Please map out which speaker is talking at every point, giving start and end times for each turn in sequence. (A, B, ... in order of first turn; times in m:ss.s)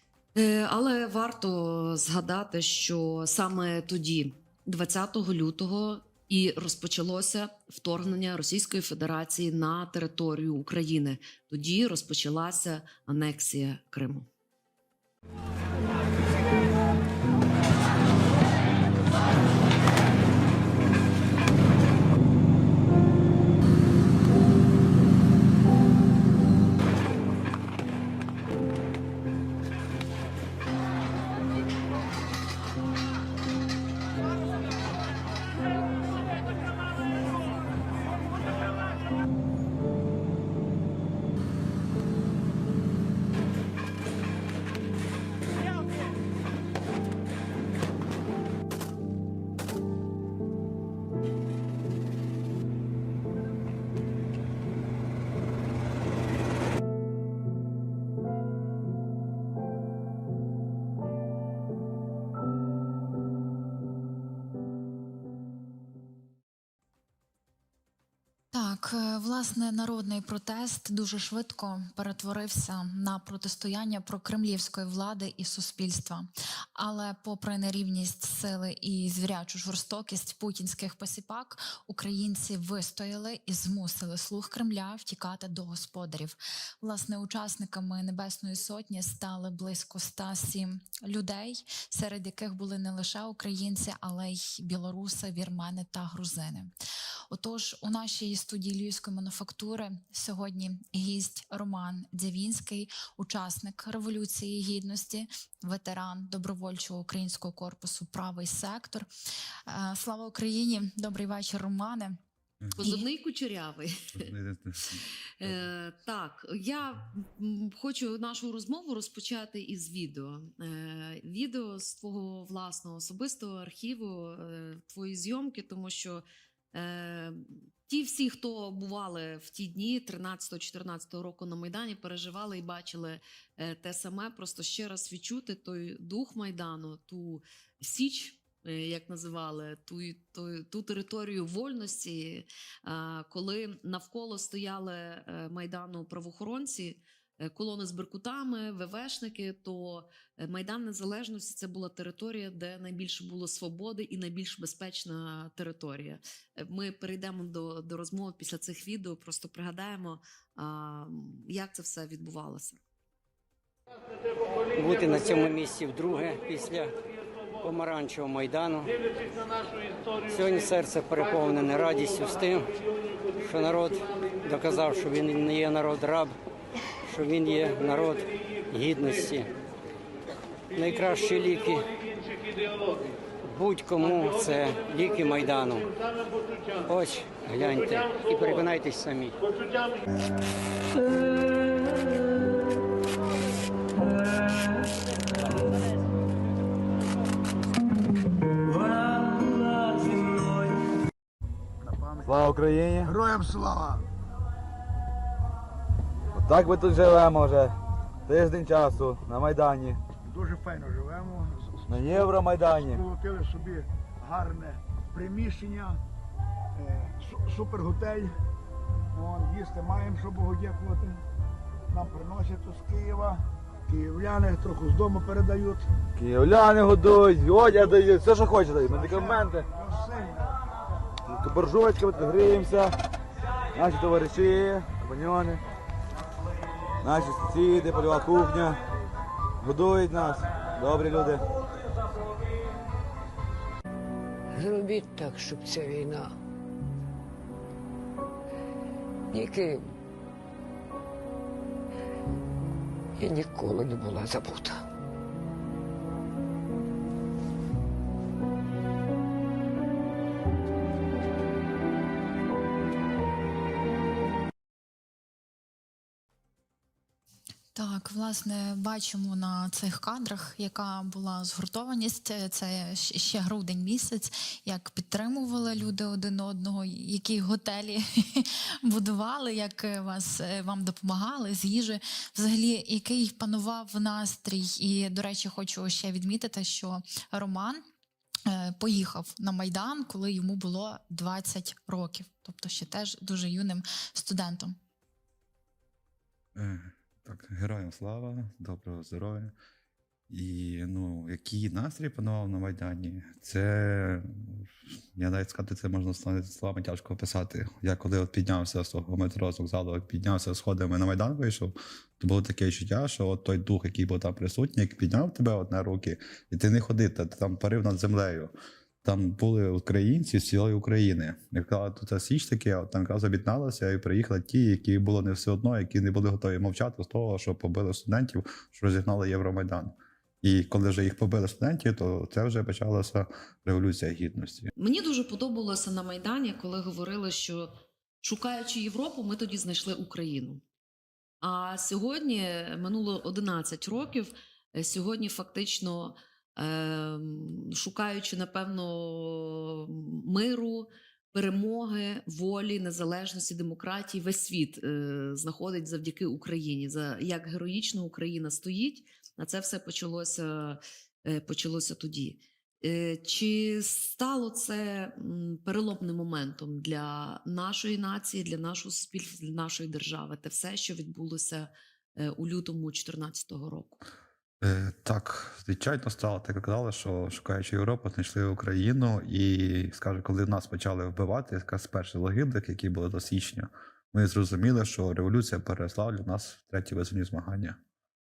0:00.3-0:14.3 A
1:08.5-1:36.7 B
1:37.3-1:49.1 B
1:49.7-1:52.2 B
1:52.8-1:54.3 A
1:54.1-1:55.7 C
1:55.4-2:42.8 A
2:44.7-2:46.9 D
2:47.6-2:48.9 D
2:50.1-2:52.7 D
2:53.3-2:56.4 D
2:57.0-2:59.5 D
3:00.7-3:01.9 D
3:03.4-3:06.0 D
3:06.8-3:09.4 D
3:19.8-3:20.4 E
3:21.8-3:22.3 F
3:22.2-3:23.2 E
3:23.0-3:24.0 F
3:26.3-3:30.0 E
3:30.2-3:36.0 F
3:31.9-3:33.0 E
3:36.8-3:38.3 F
3:39.1-3:41.2 F
3:41.9-3:45.9 F
3:46.2-3:49.7 E
3:49.0-3:50.5 F
3:51.3-3:52.9 E
3:53.7-3:55.6 E
3:57.0-3:58.8 E
3:59.6-4:01.4 E
4:04.5-4:06.3 G
4:09.3-4:09.8 G
4:13.2-4:14.8 G
4:27.7-4:47.8 B
4:48.5-4:54.8 B
4:56.5-4:59.5 C
5:00.3-5:18.5 C
5:19.0-5:34.7 C
5:34.8-5:40.6 A
5:41.4-6:14.0 A
6:14.6-6:27.8 C